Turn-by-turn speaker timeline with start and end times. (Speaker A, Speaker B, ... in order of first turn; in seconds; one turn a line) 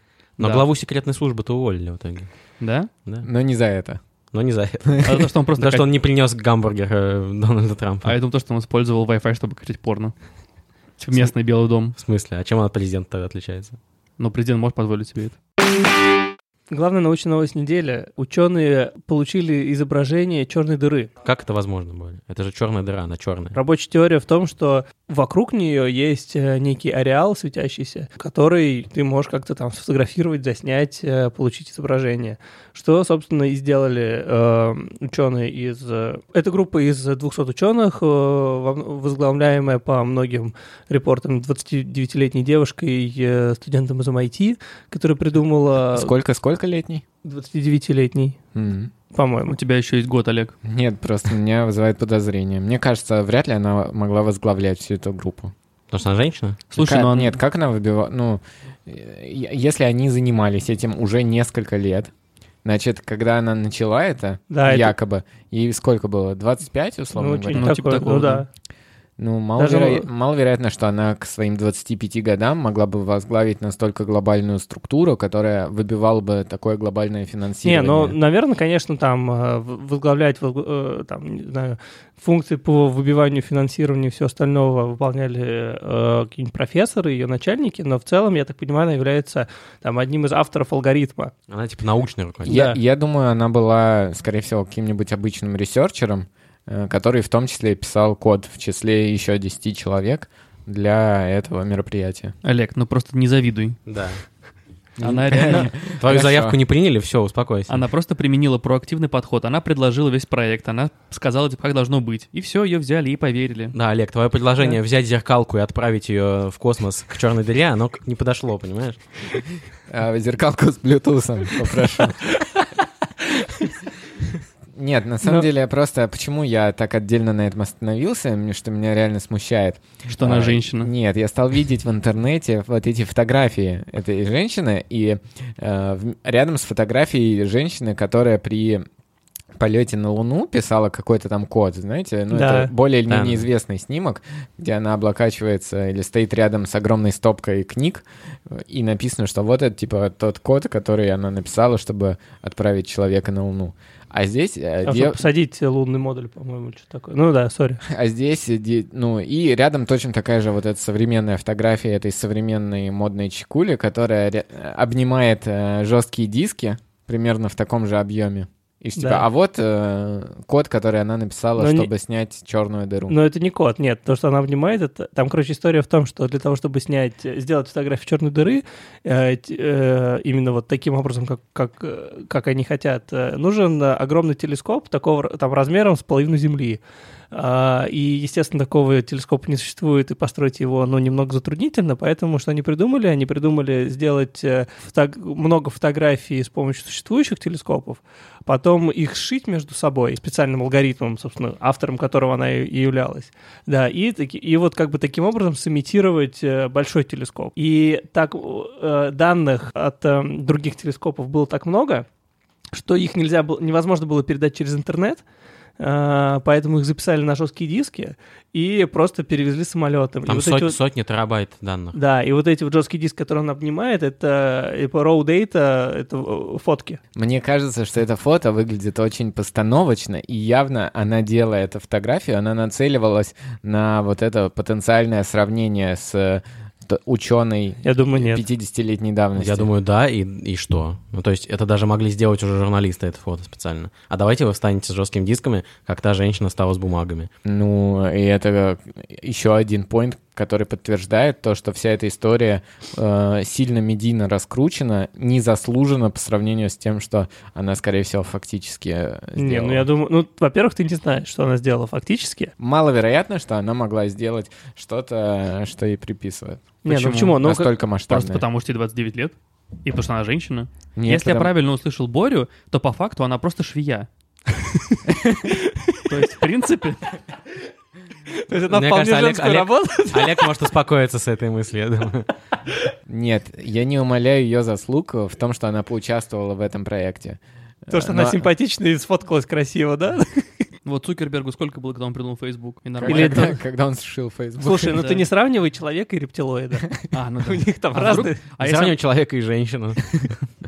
Speaker A: 0.4-0.7
Speaker B: 0.4-2.3
Speaker A: 2.6-2.9
Speaker C: 3.2-4.0
Speaker B: 4.3-5.0
Speaker A: 5.0-5.9
Speaker B: 5.6-8.1
Speaker A: 8.0-10.1
Speaker A: 11.0-11.9
Speaker B: 11.9-13.8
Speaker A: 14.2-15.3
Speaker D: 16.7-21.1
Speaker B: 21.2-23.6
Speaker D: 23.5-46.1
Speaker C: 45.9-47.0
Speaker D: 47.2-48.4
Speaker C: 48.5-48.9
Speaker D: 49.1-49.6
Speaker A: 49.5-50.5
Speaker C: 50.6-55.5
Speaker B: 55.9-56.6
Speaker A: 56.7-57.4
Speaker C: 56.8-62.1
Speaker C: 62.6-67.7
Speaker D: 64.5-64.9
Speaker D: 67.1-68.5
Speaker A: 67.5-68.4
Speaker C: 69.2-78.2
Speaker D: 69.6-70.1
Speaker D: 77.6-91.3
Speaker B: 91.5-92.6
Speaker C: 92.4-102.3
Speaker D: 92.5-92.8
Speaker A: 102.4-103.8
Speaker B: 103.9-104.2
Speaker C: 105.0-106.6
Speaker A: 105.0-105.8
Speaker B: 105.4-107.8
Speaker A: 107.7-113.7
Speaker B: 113.7-119.0
Speaker C: 119.9-122.4
Speaker C: 124.7-138.8
Speaker A: 130.1-130.9
Speaker C: 139.6-155.2
Speaker D: 142.3-142.7
Speaker B: 143.1-143.4
Speaker D: 154.8-157.8
Speaker C: 157.8-173.1
Speaker D: 169.0-169.3
Speaker D: 171.6-171.9
Speaker D: 173.1-186.8
Speaker D: 187.3-212.1
Speaker D: 212.7-215.2
Speaker D: 215.8-220.8
Speaker B: 220.3-222.0
Speaker D: 221.9-227.0
Speaker C: 227.2-239.7
Speaker D: 237.8-238.4
Speaker B: 239.4-247.3
Speaker C: 247.4-259.9
Speaker D: 259.4-262.5
Speaker C: 262.6-266.8
Speaker D: 266.8-267.7
Speaker A: 266.9-267.5
Speaker C: 267.4-268.4
Speaker A: 268.1-274.1
Speaker C: 271.0-271.5
Speaker A: 276.1-277.2
Speaker D: 278.4-280.5
Speaker B: 278.7-282.3
Speaker C: 283.1-288.5
Speaker D: 287.9-290.5
Speaker A: 290.8-293.5
Speaker C: 293.0-295.0
Speaker D: 293.0-293.6
Speaker D: 294.6-296.9
Speaker A: 294.9-295.2
Speaker A: 297.1-299.0
Speaker D: 297.4-298.4
Speaker B: 298.6-300.4